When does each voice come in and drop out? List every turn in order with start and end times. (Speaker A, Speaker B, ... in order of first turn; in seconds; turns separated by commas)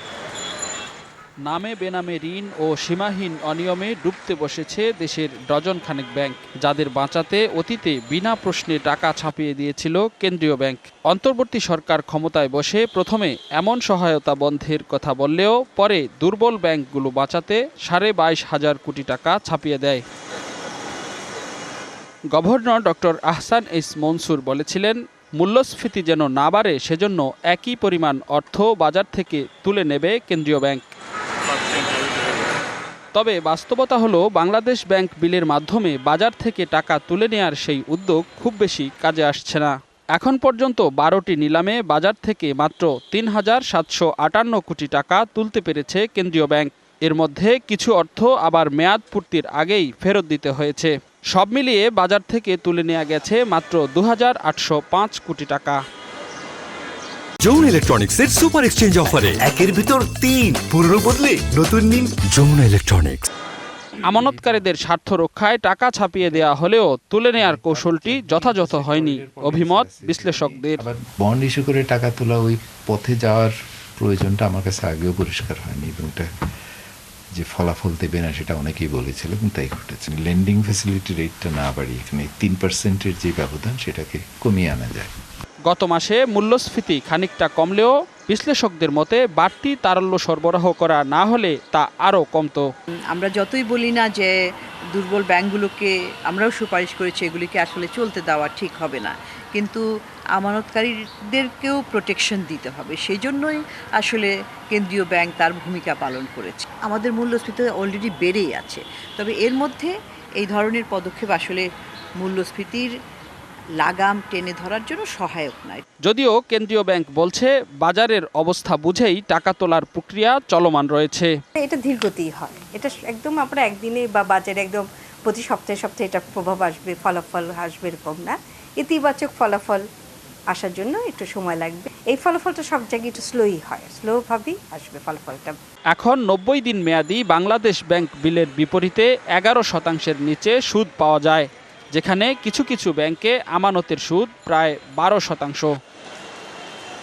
Speaker A: 1.4-20.0, Speaker A: 22.3-30.8, Speaker A: 33.1-55.8, Speaker B: 57.4-59.4, Speaker C: 59.4-62.1, Speaker B: 62.3-63.3, Speaker A: 64.0-70.8, Speaker D: 64.1-64.6, Speaker D: 66.2-66.6, Speaker D: 67.4-76.3, Speaker D: 77.3-85.1, Speaker A: 85.7-92.7, Speaker E: 93.1-94.3, Speaker E: 94.9-99.8, Speaker E: 100.4-111.7, Speaker E: 112.2-112.9, Speaker E: 113.8-115.8, Speaker A: 116.0-121.3, Speaker F: 121.6-129.8, Speaker F: 130.5-135.6, Speaker A: 135.9-145.7